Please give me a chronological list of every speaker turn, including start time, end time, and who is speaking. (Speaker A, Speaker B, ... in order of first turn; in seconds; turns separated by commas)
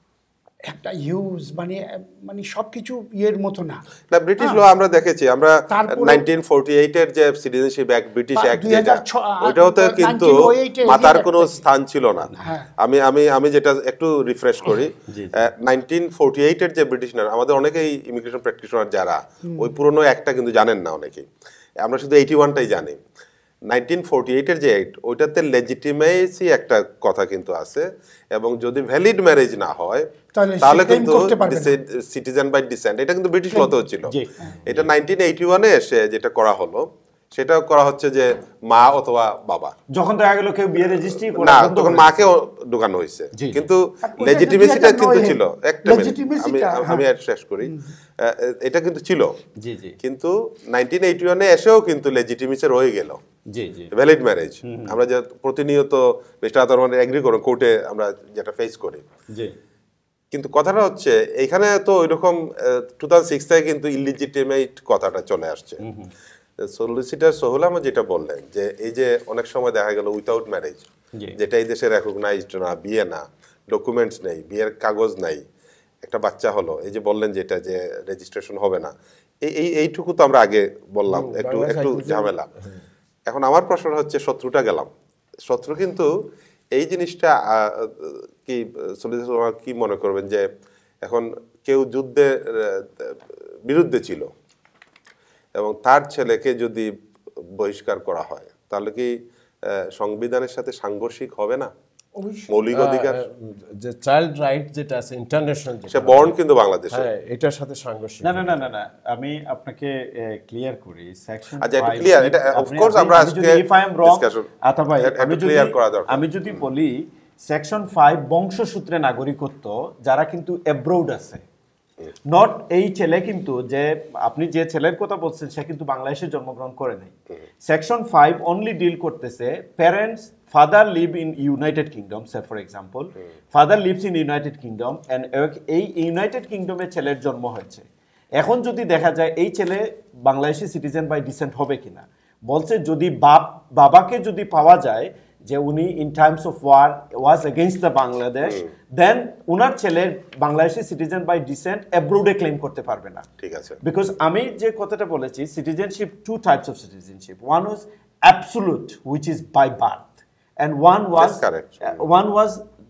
Speaker A: 0.7-3.8, Speaker B: 4.1-21.3, Speaker A: 5.7-6.2, Speaker A: 8.3-11.6, Speaker A: 12.4-12.7, Speaker C: 15.1-15.5, Speaker A: 19.4-19.7, Speaker B: 21.8-23.0, Speaker B: 23.7-30.1, Speaker A: 30.3-31.8, Speaker B: 30.6-39.8, Speaker C: 34.1-34.9, Speaker C: 39.9-42.3, Speaker B: 40.8-49.4, Speaker C: 43.4-43.7, Speaker A: 44.0-47.1, Speaker A: 47.6-47.9, Speaker C: 49.6-50.0, Speaker B: 50.0-53.2, Speaker C: 53.5-53.9, Speaker B: 53.9-59.0, Speaker C: 54.6-55.0, Speaker B: 60.3-65.8, Speaker C: 65.8-66.1, Speaker B: 66.6-70.9, Speaker B: 71.4-75.4, Speaker B: 76.0-82.5, Speaker D: 81.1-82.8, Speaker B: 83.3-84.9, Speaker B: 85.5-86.1, Speaker B: 86.7-90.5, Speaker B: 91.0-94.3, Speaker B: 95.6-96.9, Speaker B: 97.6-99.1, Speaker B: 99.7-101.7, Speaker A: 102.2-102.5, Speaker B: 102.5-103.2, Speaker D: 102.7-106.4, Speaker B: 105.9-107.1, Speaker D: 106.9-108.7, Speaker C: 108.2-121.4, Speaker B: 111.6-114.5, Speaker B: 115.0-116.7, Speaker C: 122.3-127.1, Speaker C: 127.7-153.3, Speaker B: 153.4-153.8, Speaker C: 153.8-160.1, Speaker C: 160.6-162.6, Speaker B: 161.2-162.0